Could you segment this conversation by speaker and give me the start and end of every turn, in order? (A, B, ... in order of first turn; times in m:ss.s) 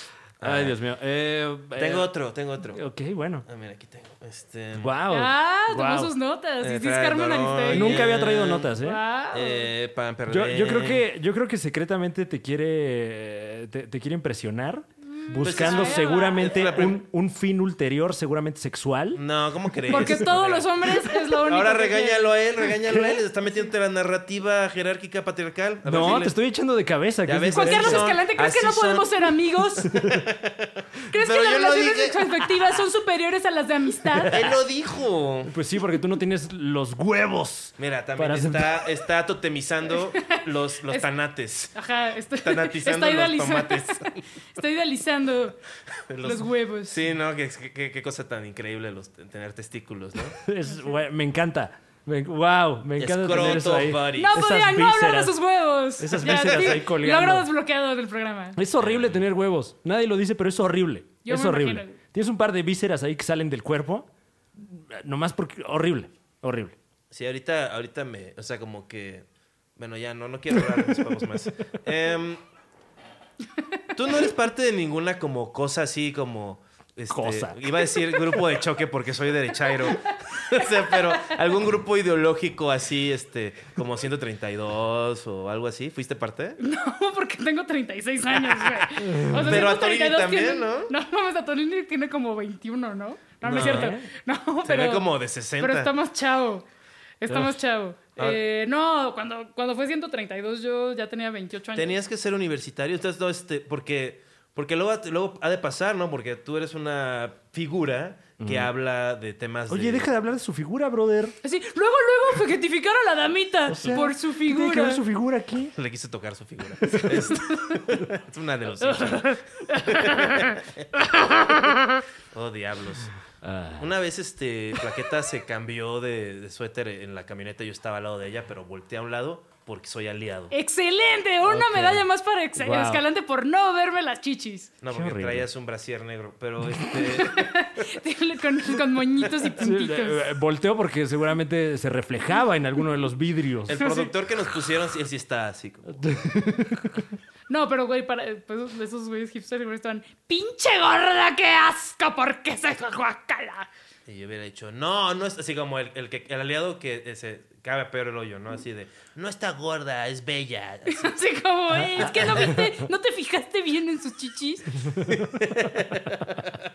0:00.4-0:00.8 A
0:00.4-0:02.1 B
0:01.8-0:02.8 A
0:02.7-0:03.4 B
0:03.4-0:05.0 A
0:04.8-0:06.1 B
0:05.1-0:08.2 C
0:06.6-0:08.7 A
0:07.7-0:09.0 B
0:08.8-0:09.7 C
0:09.3-0:11.0 A
0:10.3-0:19.2 B
0:15.1-0:16.7 C
0:15.4-0:17.0 A
0:19.1-0:26.4 A
0:19.9-0:20.2 B
0:19.9-0:22.4 C
0:22.8-0:23.2 B
0:25.8-0:28.1 B
0:27.2-0:32.4 A
0:27.5-0:29.9 C
0:29.9-0:30.2 B
0:31.1-0:34.5 C
0:34.3-0:35.5 A
0:35.4-0:38.8 B
0:37.8-0:41.8 A
0:40.2-0:41.1 C
0:41.7-0:45.6 C
0:42.4-0:44.1 A
0:46.1-0:50.4 A
0:46.2-0:47.0 C
0:50.4-0:55.4 B
0:53.0-0:54.3 A
0:54.1-0:58.6 C
0:56.0-0:57.5 B
0:56.2-0:56.8 A
0:58.6-1:06.8 B
0:58.8-0:59.2 A
1:01.2-1:02.0 C
1:07.1-1:09.2 A
1:09.8-1:12.4 A
1:10.6-1:11.2 B
1:13.9-1:26.6 A
1:17.1-1:17.8 B
1:19.8-1:21.3 C
1:26.6-1:35.1 C
1:28.6-1:30.9 A
1:29.0-1:29.6 B
1:33.4-1:33.9 A
1:33.4-1:34.1 B
1:34.6-1:35.9 A
1:35.6-1:36.6 C
1:37.2-1:42.0 C
1:41.8-1:50.1 A
1:48.4-1:48.7 B
1:49.7-1:51.4 B
1:51.4-1:55.0 C
1:53.7-1:55.7 B
1:55.8-2:00.8 A
1:56.9-1:57.8 C
1:58.8-2:00.6 C
2:01.1-2:01.8 C
2:02.3-2:03.1 A
2:03.4-2:03.9 B
2:03.8-2:10.5 A
2:10.5-2:14.7 C
2:11.4-2:13.0 B
2:14.8-2:17.9 A
2:14.9-2:15.5 B
2:17.1-2:20.2 C
2:19.6-2:23.8 B
2:23.7-2:26.1 A
2:23.8-2:24.1 C
2:25.9-2:27.1 B
2:27.5-2:33.7 C
2:34.1-2:41.1 A
2:40.9-2:44.9 C
2:41.8-2:42.7 B
2:45.1-2:46.4 A